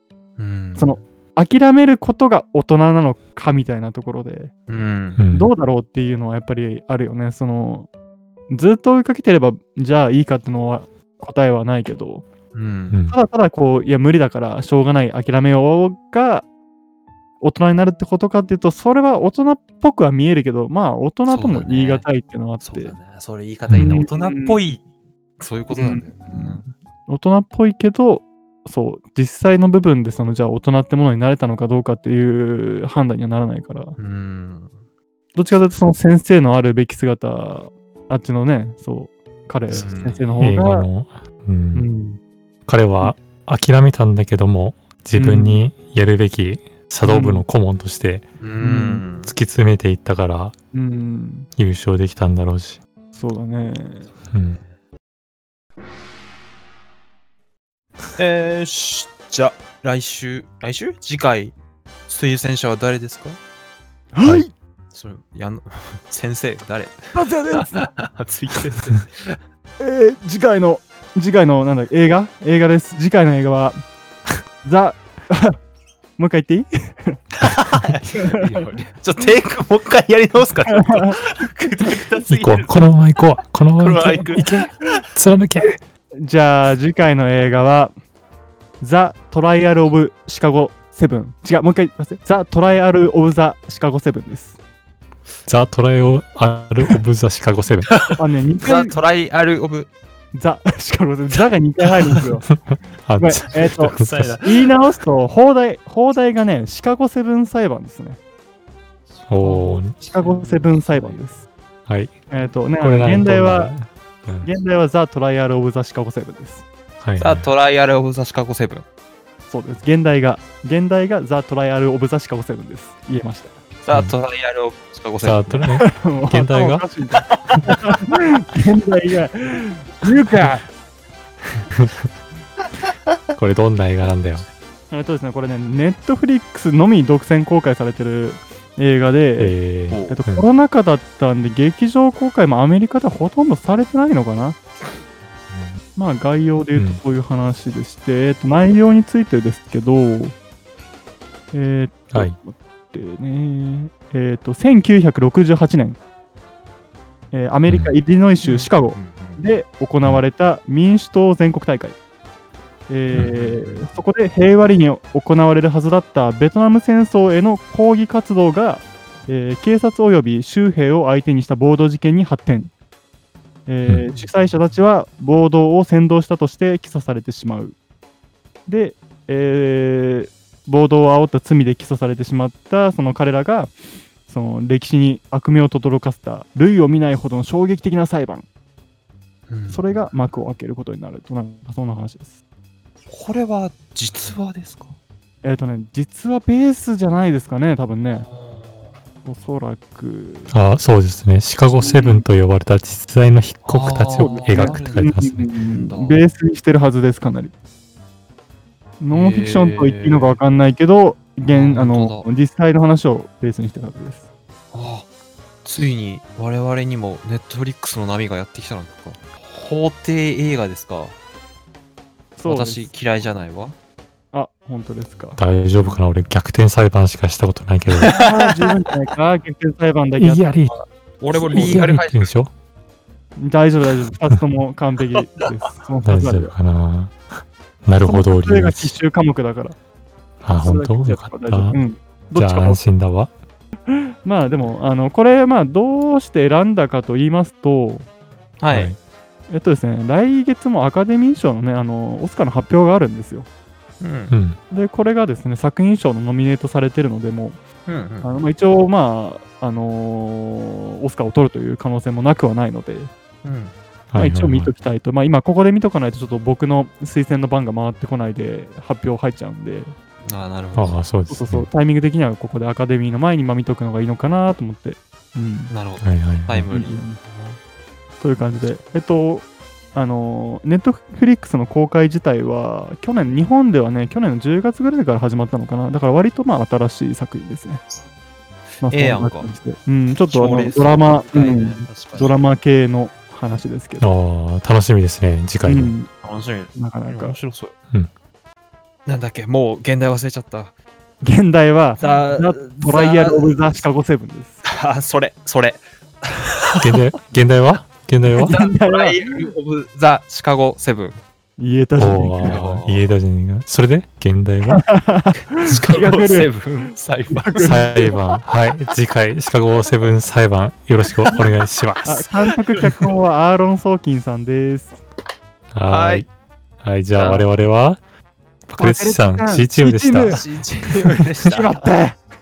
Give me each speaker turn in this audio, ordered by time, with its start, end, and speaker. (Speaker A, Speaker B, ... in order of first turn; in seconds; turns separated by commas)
Speaker A: 0.4-1.0, Speaker B: 0.8-4.5, Speaker A: 4.7-5.2, Speaker C: 5.2-5.5, Speaker B: 5.3-7.9, Speaker B: 8.5-12.2, Speaker A: 12.5-13.0, Speaker C: 12.9-13.2, Speaker B: 13.1-16.4, Speaker B: 17.4-23.0, Speaker A: 21.3-22.1, Speaker A: 22.6-24.8, Speaker C: 23.7-24.0, Speaker B: 23.7-24.6, Speaker A: 25.4-26.7, Speaker B: 25.7-34.0, Speaker A: 34.0-34.8, Speaker B: 35.3-40.9, Speaker A: 39.7-40.4, Speaker C: 40.4-41.9, Speaker B: 41.7-42.2, Speaker C: 42.6-48.3, Speaker B: 45.1-45.6, Speaker B: 47.0-47.5, Speaker A: 48.4-49.3, Speaker B: 48.6-49.0, Speaker C: 49.2-50.5, Speaker B: 50.7-51.5, Speaker C: 51.5-52.8, Speaker B: 53.1-54.1, Speaker C: 54.3-54.6, Speaker A: 58.2-61.5, Speaker A: 62.1-63.4, Speaker B: 64.1-64.5, Speaker A: 64.9-69.4, Speaker B: 67.1-67.8, Speaker B: 69.8-73.8, Speaker B: 74.6-75.6, Speaker B: 76.2-77.2, Speaker A: 77.4-82.9, Speaker B: 78.2-78.4, Speaker B: 80.7-81.2, Speaker C: 82.3-85.8, Speaker A: 83.8-85.0, Speaker B: 86.2-87.9, Speaker B: 88.8-94.6, Speaker C: 95.5-97.9, Speaker A: 97.9-99.9, Speaker B: 98.1-99.0, Speaker B: 100.3-102.6, Speaker C: 102.7-104.4, Speaker B: 103.2-108.2, Speaker A: 103.9-104.7, Speaker C: 109.3-110.0, Speaker B: 109.4-111.5, Speaker A: 110.0-111.2, Speaker C: 111.9-112.1, Speaker B: 112.3-113.7, Speaker C: 112.8-114.5, Speaker B: 114.4-116.7, Speaker C: 117.0-117.5, Speaker A: 117.2-118.8, Speaker B: 119.5-123.6, Speaker A: 123.8-125.7, Speaker C: 125.2-126.8, Speaker B: 125.8-130.6, Speaker C: 131.7-132.0, Speaker C: 133.3-134.4, Speaker B: 134.9-139.6, Speaker C: 139.4-140.4, Speaker A: 139.9-140.2, Speaker B: 140.1-144.6, Speaker B: 145.9-150.3, Speaker C: 146.8-147.0, Speaker B: 151.5-156.0, Speaker B: 157.3-162.0, Speaker C: 157.7-157.9, Speaker A: 158.4-159.4, Speaker B: 162.9-172.7, Speaker A: 163.2-163.8, Speaker B: 173.7-177.8, Speaker B: 178.7-183.7, Speaker B: 184.3-188.4, Speaker A: 189.5-190.1, Speaker B: 189.7-192.4, Speaker A: 193.1-194.9, Speaker B: 195.4-198.3, Speaker A: 198.2-199.0, Speaker B: 199.2-200.5, Speaker C: 200.5-205.5, Speaker B: 201.8-202.2, Speaker A: 203.6-205.2, Speaker B: 204.2-207.5, Speaker A: 205.7-206.2, Speaker B: 209.0-214.2, Speaker A: 209.1-210.4, Speaker A: 211.5-212.3, Speaker A: 214.7-215.1, Speaker A: 215.6-221.2, Speaker B: 222.4-222.9, Speaker A: 222.4-223.8, Speaker B: 224.3-225.4, Speaker C: 225.4-228.1, Speaker A: 225.8-226.0, Speaker A: 227.9-228.7, Speaker B: 228.1-230.8, Speaker C: 230.2-230.7, Speaker A: 231.2-232.3, Speaker C: 231.3-232.5, Speaker B: 233.4-236.5, Speaker A: 235.1-235.7, Speaker C: 236.0-237.2, Speaker C: 237.8-238.9, Speaker B: 238.0-239.8, Speaker C: 240.4-241.8, Speaker B: 240.6-242.8, Speaker C: 242.3-243.3, Speaker B: 243.9-248.1, Speaker A: 248.6-248.9, Speaker C: 248.7-249.0, Speaker B: 249.5-253.5, Speaker A: 254.0-254.3, Speaker C: 254.3-254.6, Speaker B: 254.7-257.6, Speaker A: 257.9-258.3, Speaker B: 258.2-263.1, Speaker A: 263.4-263.7, Speaker C: 264.1-264.7, Speaker B: 264.2-269.9, Speaker A: 270.2-271.0, Speaker C: 270.7-271.7, Speaker B: 271.3-275.7, Speaker A: 275.7-277.6, Speaker C: 276.0-276.7, Speaker B: 276.7-277.2, Speaker B: 278.2-287.8, Speaker A: 288.8-289.5, Speaker B: 288.8-294.1, Speaker A: 290.3-292.4, Speaker C: 294.0-295.9, Speaker B: 295.6-296.1, Speaker A: 296.2-297.7, Speaker B: 296.7-297.4, Speaker A: 299.1-300.7, Speaker B: 301.2-304.6, Speaker A: 302.0-303.6, Speaker A: 304.6-307.0, Speaker C: 306.8-308.6, Speaker B: 308.3-309.5, Speaker A: 308.3-311.2, Speaker B: 311.6-312.5, Speaker C: 311.9-314.9, Speaker A: 312.4-313.1, Speaker B: 314.7-318.2, Speaker A: 315.6-318.1, Speaker C: 317.6-322.3, Speaker B: 322.0-325.0, Speaker C: 325.7-326.3, Speaker A: 325.9-326.2, Speaker C: 326.8-328.0, Speaker A: 327.1-327.4, Speaker C: 328.7-330.4, Speaker B: 328.8-330.4, Speaker A: 330.2-331.9, Speaker B: 331.4-332.2